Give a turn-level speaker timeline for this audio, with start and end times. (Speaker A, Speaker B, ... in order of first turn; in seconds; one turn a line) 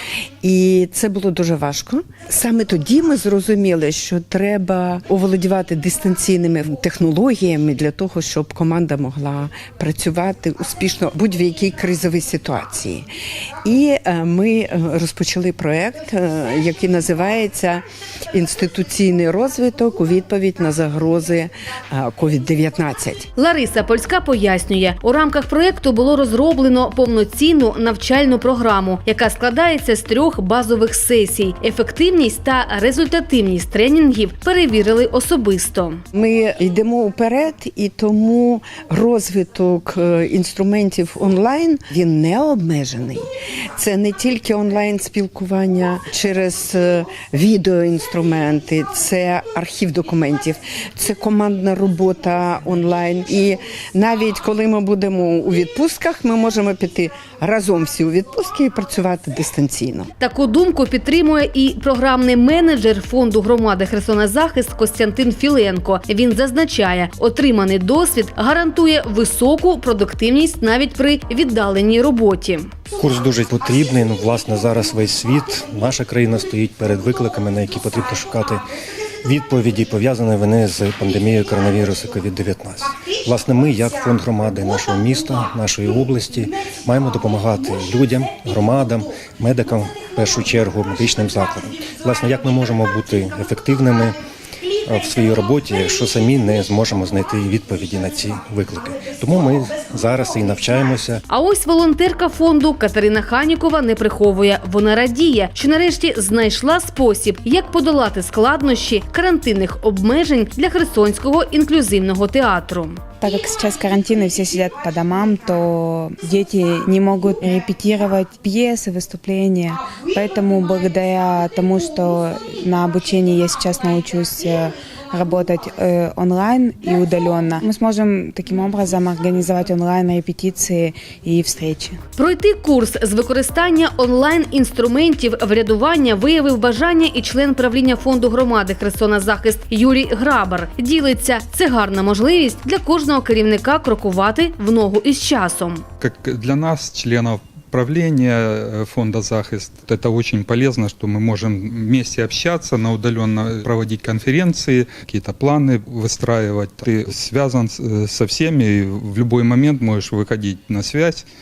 Speaker A: 0.4-13.1
Speaker A: 13.6-23.3
Speaker B: 23.3-36.0
Speaker A: 36.1-60.1
Speaker B: 60.2-72.7
Speaker C: 73.0-78.6
Speaker C: 79.2-94.2
Speaker C: 94.8-101.2
Speaker B: 101.3-113.0
Speaker D: 113.2-132.0
Speaker B: 132.2-145.8
Speaker E: 146.0-161.2